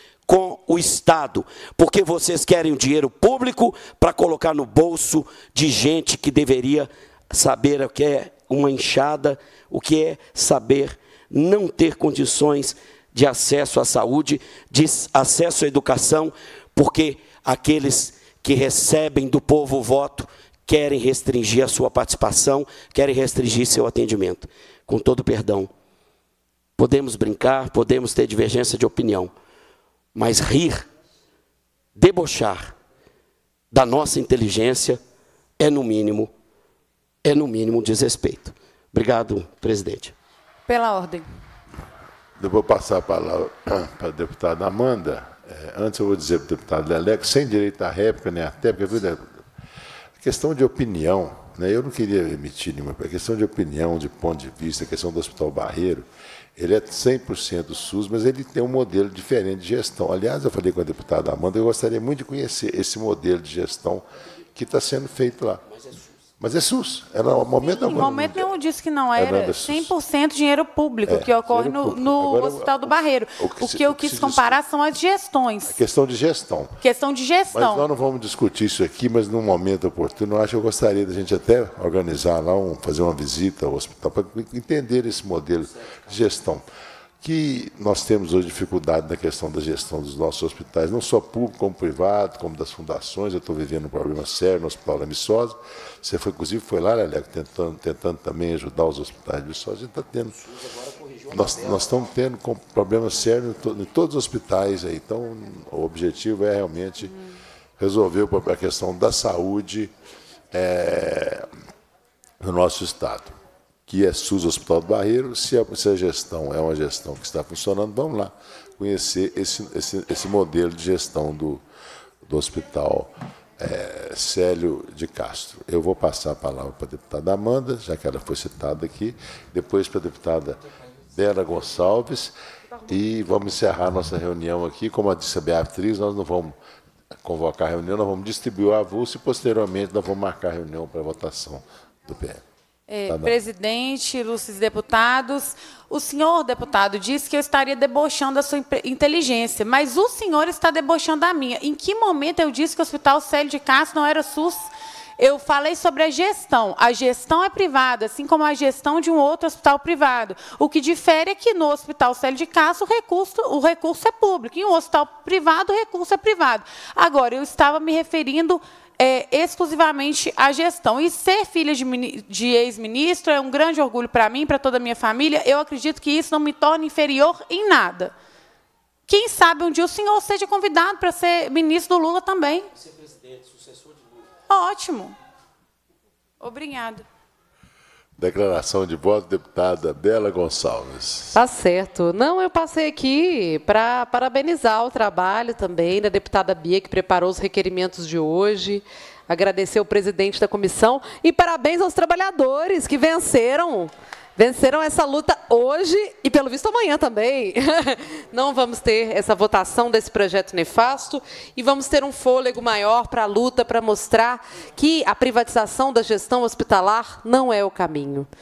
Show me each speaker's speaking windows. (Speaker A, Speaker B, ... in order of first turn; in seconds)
Speaker A: 0.3-25.7, 26.8-29.3, 30.1-30.9, 31.9-32.7, 33.7-35.0, 35.6-36.3, 37.2-40.1, 100.7-101.3
Speaker B: 40.7-41.3, 67.6-75.8, 76.8-77.9, 142.9-178.1, 179.1-182.7, 184.5-185.2, 186.4-187.1
Speaker C: 42.4-49.2, 50.2-65.6, 66.4-68.5, 69.2-69.9, 71.1-74.6, 75.7-76.8, 77.5-86.7, 87.2-100.4, 101.3-107.2, 107.8-109.9, 110.5-111.5, 112.4-113.3, 113.9-121.6, 122.2-130.6, 131.2-132.3, 132.9-136.6, 137.2-142.4, 143.1-143.3, 188.2-191.4
Speaker D: 191.3-218.3